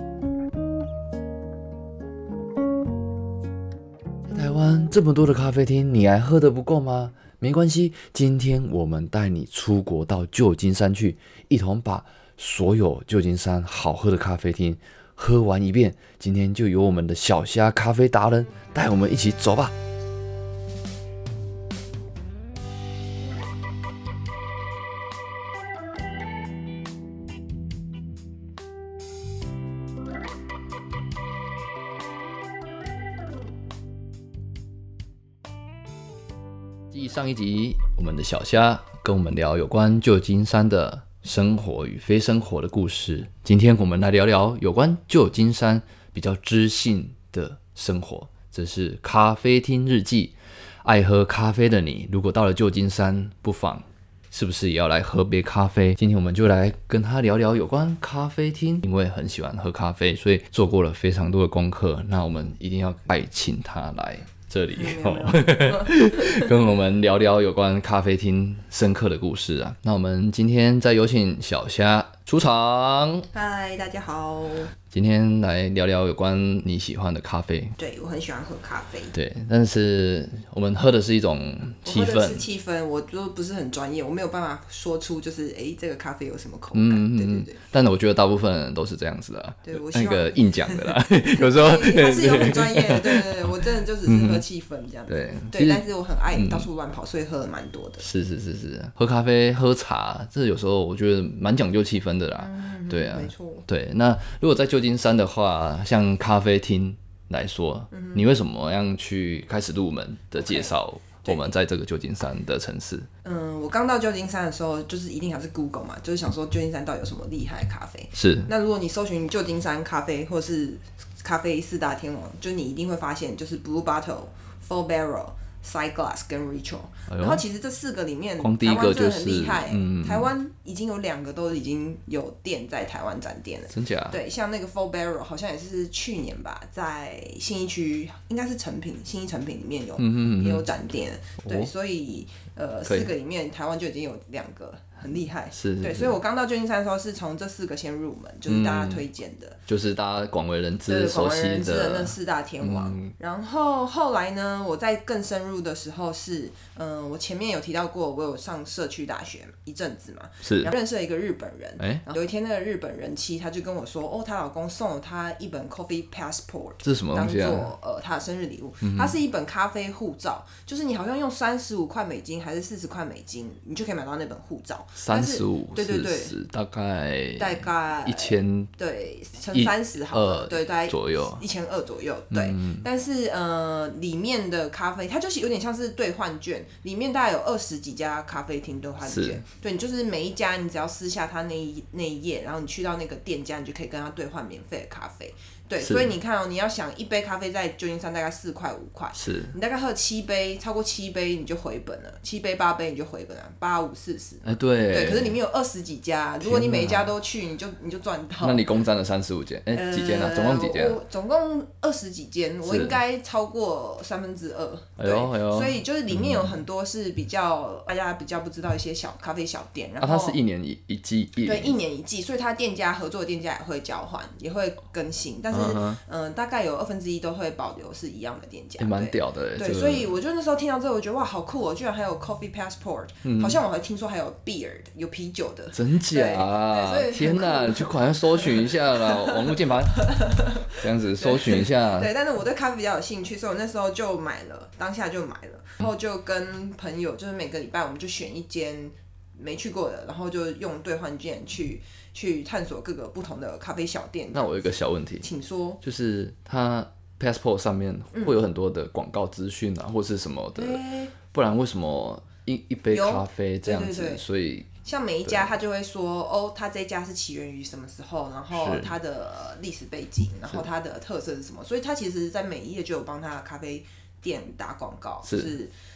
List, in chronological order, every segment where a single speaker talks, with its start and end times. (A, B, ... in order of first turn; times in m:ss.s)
0:04.2-0:19.7 A
0:36.9-1:13.3 A
1:04.7-1:06.5 B
1:13.3-1:14.7 B
1:14.9-1:17.7 A
1:17.8-1:19.1 B
1:19.1-1:22.4 A
1:21.8-1:27.6 B
1:26.7-1:34.4 A
1:29.6-1:38.0 B
1:35.1-1:36.7 A
1:38.0-1:53.1 A
1:42.4-1:43.6 B
1:47.9-1:48.2 B
1:50.4-1:51.5 B
1:53.2-2:29.6 B
1:58.1-1:58.5 A
2:07.1-2:07.4 A
2:08.4-2:10.3 A
2:13.7-2:14.2 A
2:20.0-2:20.6 A
2:21.4-2:21.7 A
2:22.8-2:23.1 A
2:25.5-2:26.2 A
2:28.5-2:29.0 A
2:29.7-2:33.1 A
2:30.9-2:56.3 B
2:40.4-2:40.7 A
2:41.8-2:42.0 A
2:46.8-2:47.7 A
2:48.8-2:49.2 A
2:55.0-2:58.7 A
2:57.4-3:28.6 B
2:59.5-3:01.4 A
3:02.3-3:02.8 A
3:09.0-3:09.4 A
3:15.8-3:16.1 A
3:19.1-3:19.5 A
3:24.4-3:25.4 A
3:26.4-3:27.1 A
3:28.4-3:31.0 A
3:29.7-3:40.4 B
3:32.6-3:33.0 A
3:35.0-3:36.5 A
3:40.0-3:41.8 A
3:41.4-4:15.8 B
3:45.5-3:46.0 A
3:48.8-3:50.1 A
3:53.2-3:53.6 A
3:55.7-4:02.1 A
4:14.3-4:15.3 A
4:15.8-4:20.8 A
4:18.1-4:18.4 B
4:20.6-4:21.2 B
4:21.3-4:24.7 A
4:22.9-4:24.2 B
4:24.8-4:35.7 B
4:28.5-4:28.9 A